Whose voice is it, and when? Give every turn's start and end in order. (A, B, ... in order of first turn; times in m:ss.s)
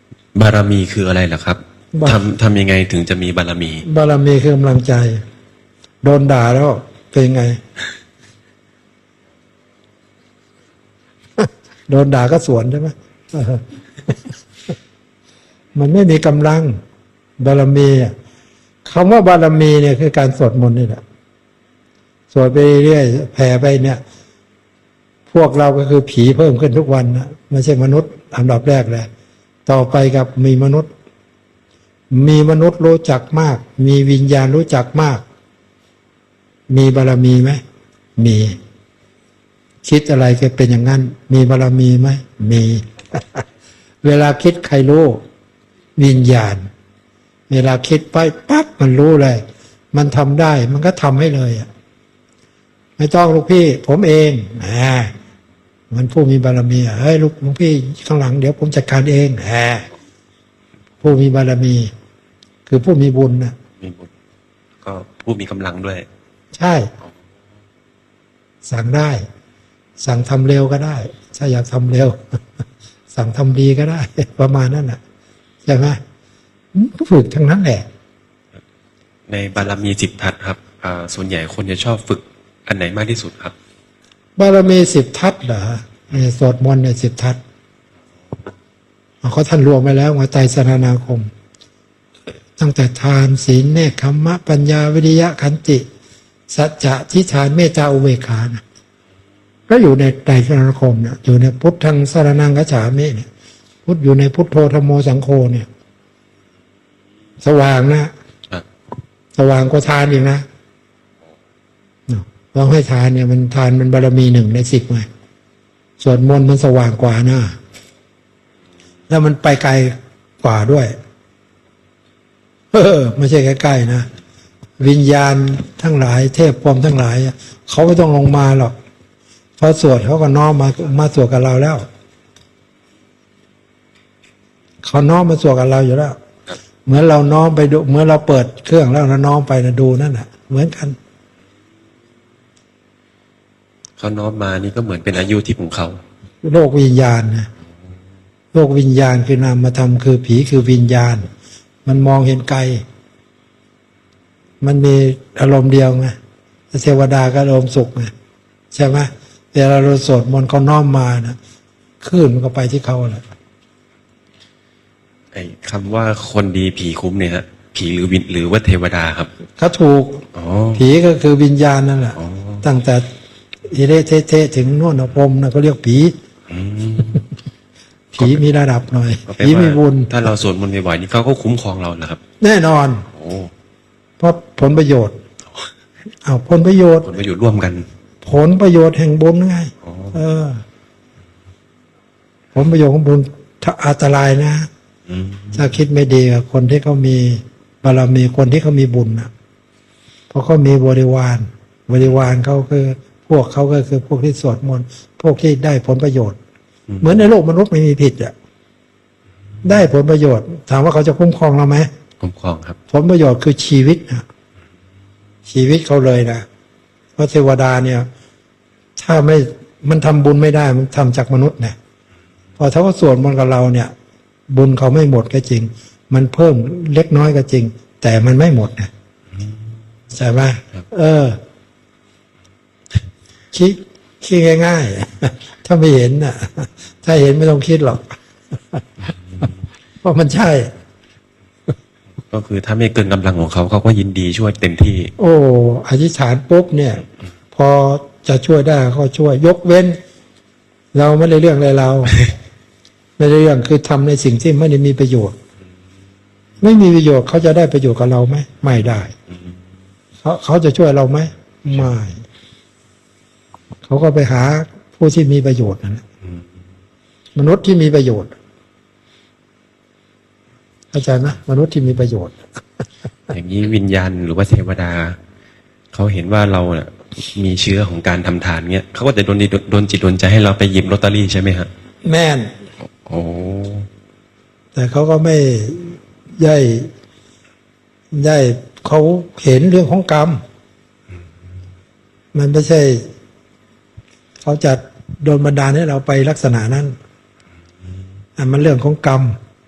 0:00.3-0:03.8 A
0:01.9-0:02.2 B
0:03.8-0:05.2 B
0:06.0-0:07.6 B
0:11.4-0:14.3 B
0:15.7-0:16.8 B
0:17.4-0:18.1 B
0:18.8-0:21.0 B
0:22.3-0:24.0 B
0:25.3-0:29.1 B
0:29.7-0:30.9 B
0:32.1-0:35.2 B
0:36.7-0:37.6 B
0:38.2-0:38.6 B
0:39.8-0:43.4 B
0:44.0-0:45.2 B
0:46.0-0:46.6 B
0:47.5-0:51.7 B
0:53.0-0:55.1 B
0:55.9-0:59.8 B
1:01.0-1:01.9 B
1:02.7-1:03.5 B
1:03.8-1:04.1 A
1:04.8-1:06.1 A
1:06.5-1:06.9 B
1:08.6-1:09.2 B
1:10.0-1:12.2 B
1:13.1-1:15.0 B
1:15.6-1:16.0 B
1:16.7-1:17.9 B
1:19.3-1:23.5 A
1:24.4-1:27.4 B
1:29.2-1:31.3 B
1:32.6-1:35.8 B
1:36.5-1:38.6 B
1:39.7-1:43.3 B
1:43.8-1:45.7 B
1:47.4-1:48.1 B
1:49.4-1:50.4 B
1:52.1-1:55.1 B
1:56.0-1:57.6 B
1:59.1-2:01.0 B
2:02.7-2:04.1 B
2:04.8-2:08.7 B
2:09.6-2:11.8 B
2:14.8-2:16.2 B
2:16.8-2:21.0 B
2:24.0-2:26.0 A
2:26.4-2:27.5 B
2:28.5-2:31.3 B
2:31.8-2:32.8 B
2:34.6-2:36.1 B
2:36.7-2:38.1 B
2:38.7-2:41.4 B
2:42.0-2:43.2 B
2:45.3-2:49.3 A
2:49.6-2:50.2 B
2:50.3-2:50.8 A
2:50.8-2:53.1 B
2:52.2-2:52.6 A
2:53.7-2:56.1 B
2:56.5-2:57.3 A
2:58.1-3:00.1 B
2:58.2-2:58.4 A
2:59.2-3:02.2 A
3:02.4-3:03.0 B
3:03.1-3:03.5 A
3:04.2-3:05.1 B
3:06.2-3:07.1 B
3:07.0-3:07.8 A
3:08.2-3:10.6 B
3:09.8-3:10.1 A
3:12.5-3:14.7 B
3:15.1-3:15.6 A
3:15.5-3:19.3 B
3:20.3-3:26.4 B
3:27.0-3:28.3 B
3:29.6-3:31.9 B
3:32.2-3:32.8 A
3:32.9-3:34.2 B
3:35.5-3:36.4 B
3:37.2-3:38.1 B
3:39.0-3:41.8 B
3:42.6-3:43.9 B
3:44.5-3:48.9 B
3:50.1-3:51.4 B
3:53.5-3:58.2 B
4:00.0-4:00.7 B
4:02.3-4:05.1 A
4:05.2-4:10.0 B
4:10.9-4:12.2 B
4:13.2-4:15.3 B
4:16.6-4:19.1 B
4:20.2-4:22.2 B
4:23.9-4:26.0 B
4:27.3-4:28.4 B
4:30.9-4:32.5 B
4:33.3-4:35.2 A
4:35.9-4:41.7 A
4:42.0-4:42.5 B
4:43.0-4:43.9 A
4:44.7-4:46.9 B
4:48.1-4:50.4 B
4:52.3-4:53.0 B
4:54.4-4:56.9 B
4:58.4-4:59.4 B